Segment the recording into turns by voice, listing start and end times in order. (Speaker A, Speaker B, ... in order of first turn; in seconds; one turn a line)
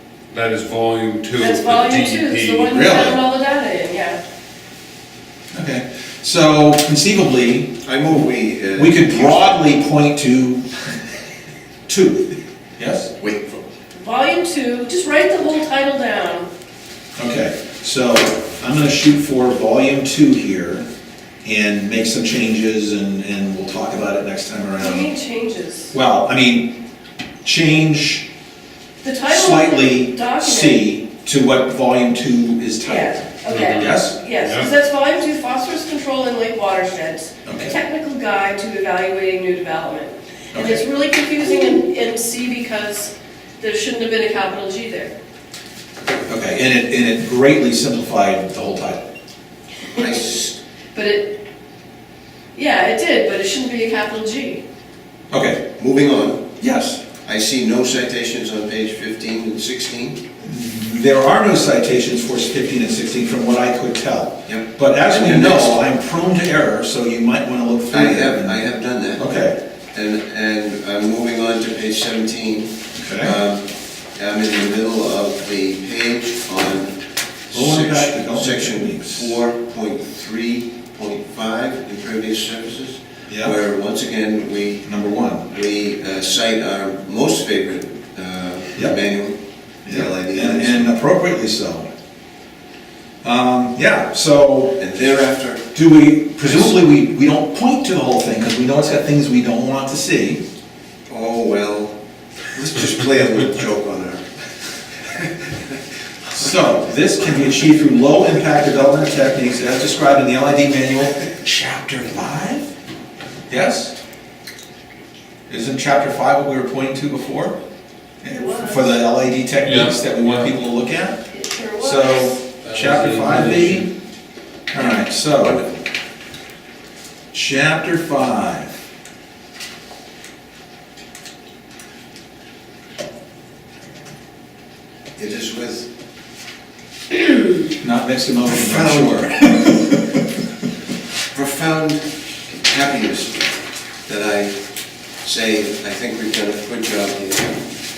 Speaker A: 0.3-2.7
Speaker B: 1.4-4.2
Speaker C: 2.7-3.2
Speaker C: 5.5-7.8
Speaker D: 7.8-9.6
Speaker C: 8.8-10.7
Speaker C: 11.9-13.1
Speaker D: 13.2-13.7
Speaker B: 13.9-16.5
Speaker C: 17.2-20.9
Speaker C: 21.4-25.1
Speaker B: 24.8-25.9
Speaker C: 25.9-26.7
Speaker C: 27.4-28.2
Speaker B: 29.0-30.9
Speaker C: 29.3-34.2
Speaker B: 32.8-45.1
Speaker A: 33.5-34.7
Speaker C: 37.5-37.8
Speaker C: 40.5-40.9
Speaker C: 46.3-49.0
Speaker D: 49.9-50.6
Speaker B: 50.9-51.4
Speaker B: 52.5-54.6
Speaker C: 55.3-55.6
Speaker D: 55.8-56.5
Speaker C: 56.6-57.0
Speaker D: 57.2-60.2
Speaker C: 60.4-68.6
Speaker D: 64.5-65.8
Speaker D: 67.9-69.3
Speaker C: 69.2-69.6
Speaker D: 69.9-77.0
Speaker C: 73.0-73.4
Speaker D: 77.5-84.9
Speaker C: 77.5-79.4
Speaker C: 83.3-83.6
Speaker C: 84.8-85.5
Speaker D: 85.5-90.9
Speaker C: 89.9-91.9
Speaker C: 93.2-94.8
Speaker D: 94.8-95.7
Speaker C: 95.7-100.4
Speaker D: 96.4-96.7
Speaker D: 101.1-102.0
Speaker D: 102.5-104.2
Speaker C: 106.3-112.7
Speaker C: 113.5-113.9
Speaker C: 115.5-117.6
Speaker C: 118.2-121.2
Speaker B: 118.3-119.0
Speaker A: 119.6-120.5
Speaker B: 121.3-122.4
Speaker C: 121.8-123.9
Speaker A: 122.6-123.9
Speaker C: 124.7-125.6
Speaker D: 124.8-125.8
Speaker C: 127.3-128.7
Speaker D: 135.2-135.9
Speaker C: 137.8-140.2
Speaker D: 138.5-139.5
Speaker D: 141.3-143.5
Speaker D: 144.1-144.6
Speaker D: 145.2-147.6